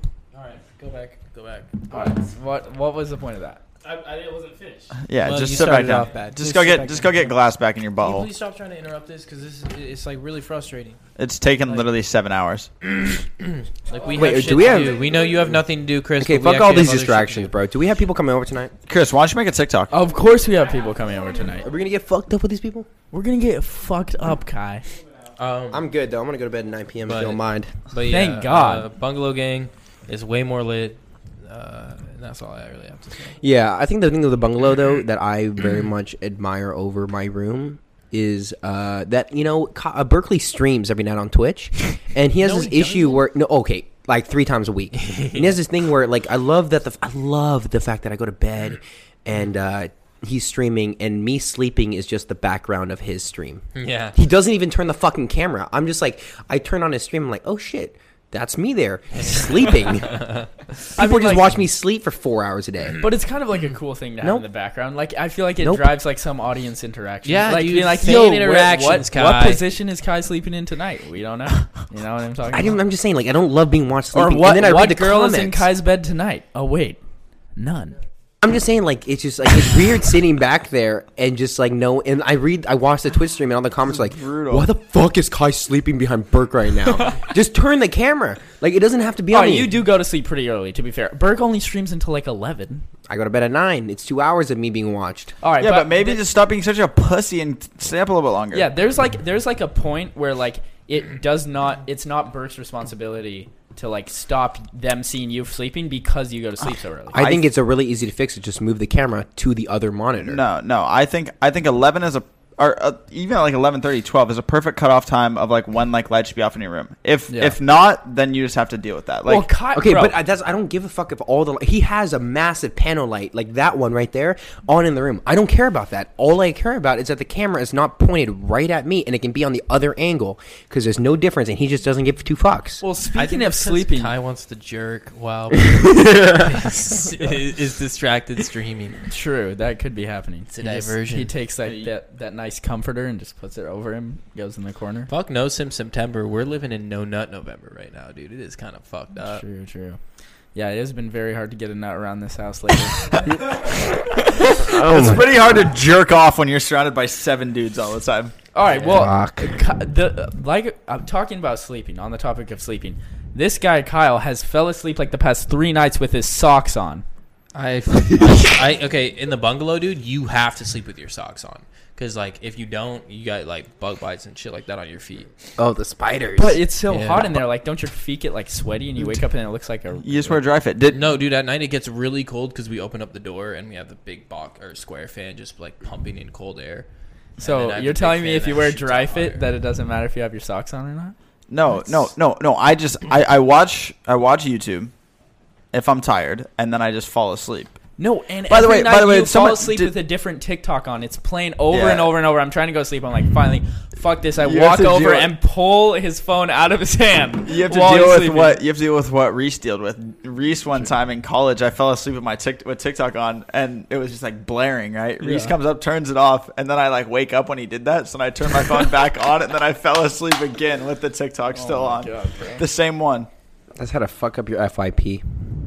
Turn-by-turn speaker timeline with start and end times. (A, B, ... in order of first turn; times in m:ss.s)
0:00.3-0:01.9 A
0:01.9-0:03.6 B
0:03.8-0:05.0 C
0:05.0-0:08.3 D
0:05.2-0:07.4 A
0:08.0-0:11.0 A
0:11.2-0:12.7 D
0:12.8-0:17.5 A
0:13.9-0:15.6 C
0:14.2-0:15.1 E
0:16.2-0:18.7 E
0:18.9-0:20.0 D
0:19.9-0:21.6 B
0:20.5-0:21.6 C
0:21.6-0:22.9 E
0:23.1-0:24.9 B
0:24.9-0:25.3 C
0:25.4-0:25.9 A
0:25.7-0:27.7 E
0:27.1-0:33.4 A
0:28.0-0:28.9 B
0:33.4-0:53.6 E
0:42.4-0:43.2 A
0:45.0-0:45.5 A
0:53.8-0:54.2 A
0:54.1-1:00.2 E
0:59.2-1:00.5 A
1:00.9-1:03.0 E
1:01.0-1:01.5 B
1:03.0-1:12.8 B
1:04.2-1:04.5 E
1:05.6-1:05.9 E
1:07.3-1:09.6 A
1:12.5-1:15.7 E
1:14.1-1:17.0 B
1:17.6-1:18.0 B
1:18.4-1:29.7 E
1:23.8-1:24.7 D
1:29.3-1:32.8 B
1:33.1-1:35.3 E
1:35.4-1:36.2 B
1:35.6-1:38.7 D
1:38.5-1:47.4 B
1:47.1-1:50.4 E
1:50.2-1:59.5 D
1:57.3-1:57.6 B
1:59.3-2:00.2 B
1:59.7-2:12.8 E
2:12.8-2:14.1 B
2:13.2-2:19.0 A
2:19.1-2:25.1 B
2:20.5-2:21.3 A
2:25.1-2:29.4 A
2:29.2-2:30.0 B
2:30.5-2:33.3 B
2:34.3-2:38.3 D
2:34.7-2:35.3 E
2:38.5-2:47.0 B
2:38.8-2:39.6 E
2:47.5-2:55.3 A
2:48.1-2:48.6 B
2:55.6-2:56.6 E
2:56.4-3:00.4 B
2:56.9-2:57.4 A
3:00.0-3:01.0 D
3:00.9-3:09.5 A
3:07.4-3:11.2 B
3:11.5-3:14.9 D
3:15.7-3:17.8 D
3:18.0-3:28.6 B
3:18.5-3:20.0 D
3:21.7-3:22.1 D
3:24.4-3:25.4 D
3:27.4-3:43.3 D
3:35.2-3:35.6 B
3:41.5-3:42.6 B
3:43.8-3:45.2 E